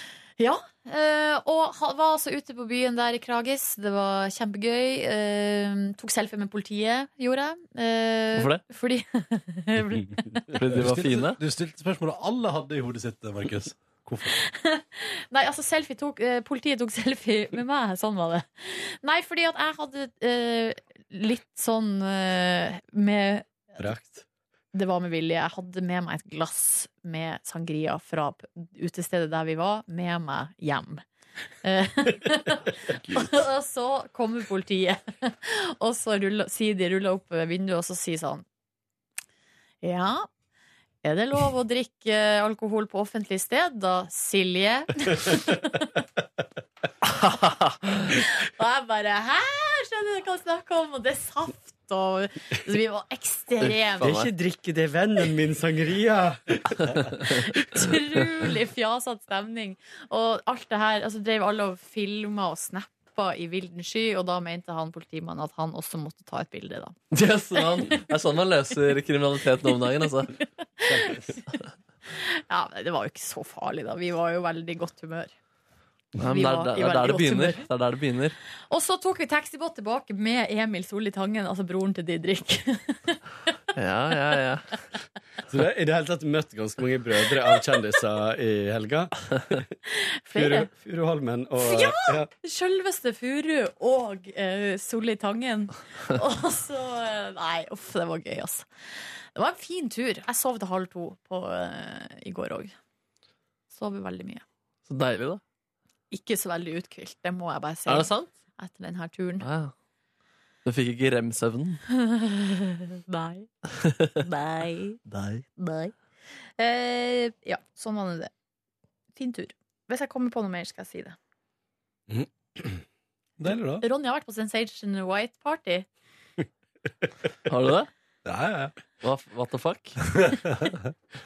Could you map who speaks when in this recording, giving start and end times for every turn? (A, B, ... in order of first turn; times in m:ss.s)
0:00.4-0:10.4 A
0:08.4-0:08.6 B
0:10.6-0:11.4 B
0:10.7-0:14.4 C
0:14.3-0:23.9 A
0:23.8-0:24.2 D
0:24.7-0:31.0 A
0:31.6-0:38.4 A
0:39.8-0:40.3 A
0:41.0-0:45.9 A
0:47.1-0:48.0 B
0:48.1-0:54.2 A
0:53.6-0:54.3 B
0:54.0-0:57.1 D
0:57.2-1:07.0 A
1:07.1-1:10.4 B
1:07.6-1:08.0 A
1:10.8-1:15.3 A
1:11.0-1:11.2 D
1:16.2-1:18.4 B
1:16.2-1:17.6 A
1:18.7-1:23.2 A
1:23.8-1:24.7 B
1:25.5-1:29.6 D
1:29.9-1:30.7 A
1:30.3-1:32.3 D
1:31.6-1:38.7 A
1:39.4-1:42.8 A
1:43.7-1:44.4 A
1:44.9-1:45.4 B
1:46.1-1:49.5 A
1:47.9-1:48.3 B
1:49.4-1:49.7 B
1:50.6-1:51.8 B
1:52.0-1:53.5 A
1:53.8-1:54.2 B
1:54.2-1:55.0 A
1:55.1-1:55.4 B
1:55.6-1:55.9 A
1:56.6-1:58.3 A
1:59.2-2:01.2 A
2:02.1-2:02.8 D
2:03.4-2:03.8 C
2:03.8-2:05.9 A
2:07.5-2:07.9 B
2:08.2-2:08.8 C
2:09.0-2:10.0 B
2:10.1-2:10.9 C